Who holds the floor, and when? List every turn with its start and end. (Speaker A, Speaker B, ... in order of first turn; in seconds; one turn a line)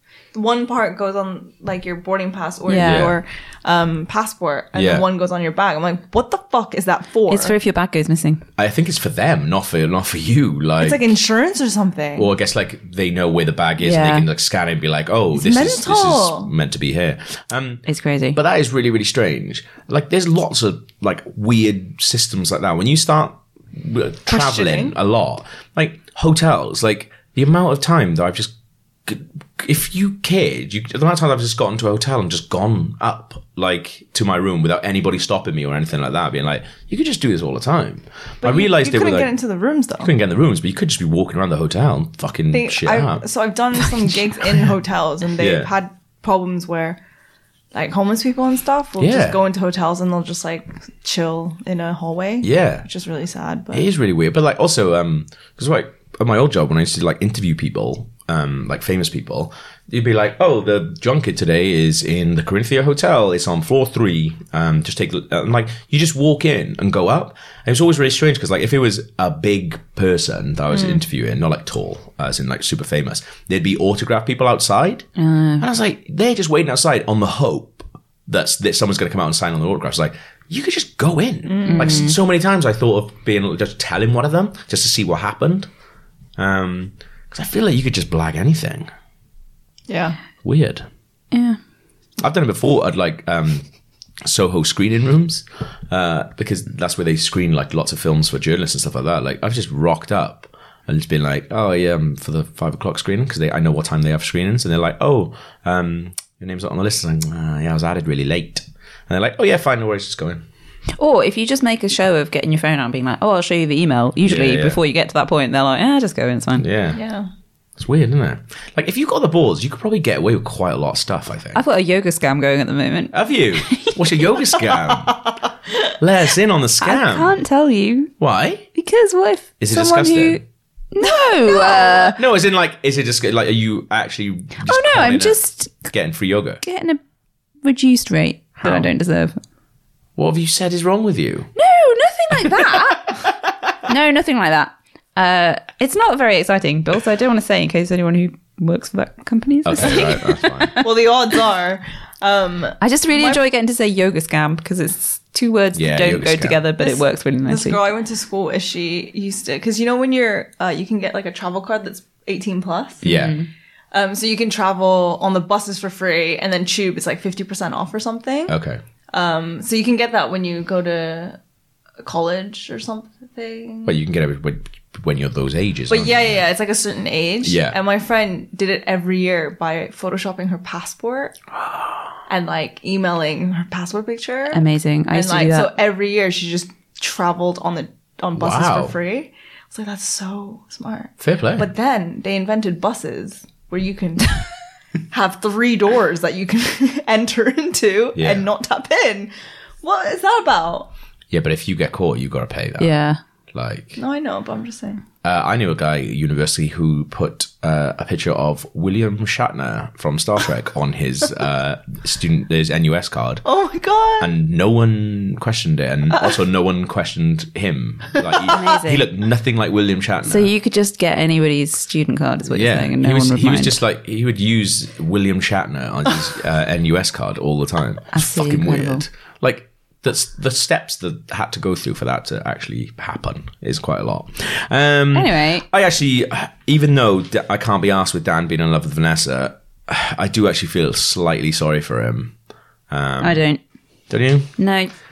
Speaker A: 0.3-7.5
Speaker B: 2.6-3.1
Speaker C: 2.7-3.2
Speaker C: 4.7-5.0
Speaker B: 7.3-8.4
Speaker C: 8.6-11.1
Speaker A: 10.8-12.3
Speaker C: 12.2-28.5
Speaker B: 13.8-14.3
Speaker A: 15.3-16.5
Speaker B: 17.9-18.4
Speaker A: 24.3-24.9
Speaker C: 29.1-39.3
Speaker A: 38.4-40.1
Speaker C: 40.0-43.2
Speaker A: 42.5-47.0
Speaker C: 45.4-45.7
Speaker A: 47.7-53.9
Speaker C: 49.0-49.4
Speaker C: 52.4-52.9
Speaker C: 53.7-75.1
Speaker B: 75.2-75.7
Speaker C: 75.6-85.7
Speaker A: 81.5-82.1
Speaker B: 81.7-82.2
Speaker C: 86.4-88.9
Speaker A: 89.9-90.2
Speaker C: 90.4-90.8
Speaker B: 91.3-91.6
Speaker C: 92.2-93.7
Speaker C: 94.2-110.4
Speaker B: 111.0-116.7
Speaker C: 114.2-114.8
Speaker C: 116.6-117.0
Speaker A: 116.9-117.3
Speaker C: 117.8-121.6
Speaker B: 121.5-124.2
Speaker C: 123.1-125.2
Speaker A: 124.8-125.1
Speaker C: 126.0-127.3
Speaker B: 126.8-128.1
Speaker C: 128.2-128.6
Speaker B: 128.7-130.4
Speaker C: 129.6-130.4
Speaker B: 130.9-132.2
Speaker A: 131.5-132.0
Speaker C: 131.8-135.4
Speaker B: 134.6-135.9
Speaker C: 135.9-136.6
Speaker B: 136.6-137.0
Speaker B: 137.6-139.4
Speaker C: 138.6-138.9
Speaker C: 140.2-141.5
Speaker B: 141.6-150.9
Speaker C: 142.4-143.3
Speaker C: 149.6-150.8
Speaker A: 150.8-153.4
Speaker B: 152.8-157.8
Speaker C: 155.7-156.6
Speaker A: 156.8-163.1
Speaker C: 163.0-163.3
Speaker B: 163.0-163.5
Speaker A: 163.9-168.6
Speaker C: 168.5-168.8
Speaker A: 169.1-171.4
Speaker A: 172.0-174.0
Speaker C: 173.8-176.3
Speaker A: 175.9-181.4
Speaker C: 177.4-177.8
Speaker A: 182.3-194.5
Speaker B: 184.5-185.7
Speaker C: 188.3-188.9
Speaker C: 191.2-191.7
Speaker A: 195.1-199.3
Speaker C: 198.1-198.5
Speaker A: 199.8-200.9
Speaker C: 201.3-202.9
Speaker B: 202.8-203.2
Speaker C: 203.5-204.0
Speaker A: 204.0-205.0
Speaker C: 205.2-213.4
Speaker A: 213.4-214.3
Speaker C: 214.2-220.5
Speaker A: 216.1-216.4
Speaker B: 218.4-219.1
Speaker B: 220.2-223.8
Speaker C: 222.5-242.3
Speaker B: 228.1-229.0
Speaker B: 235.1-235.7
Speaker C: 242.9-243.4
Speaker B: 243.2-243.6
Speaker C: 244.1-244.6
Speaker B: 244.6-244.9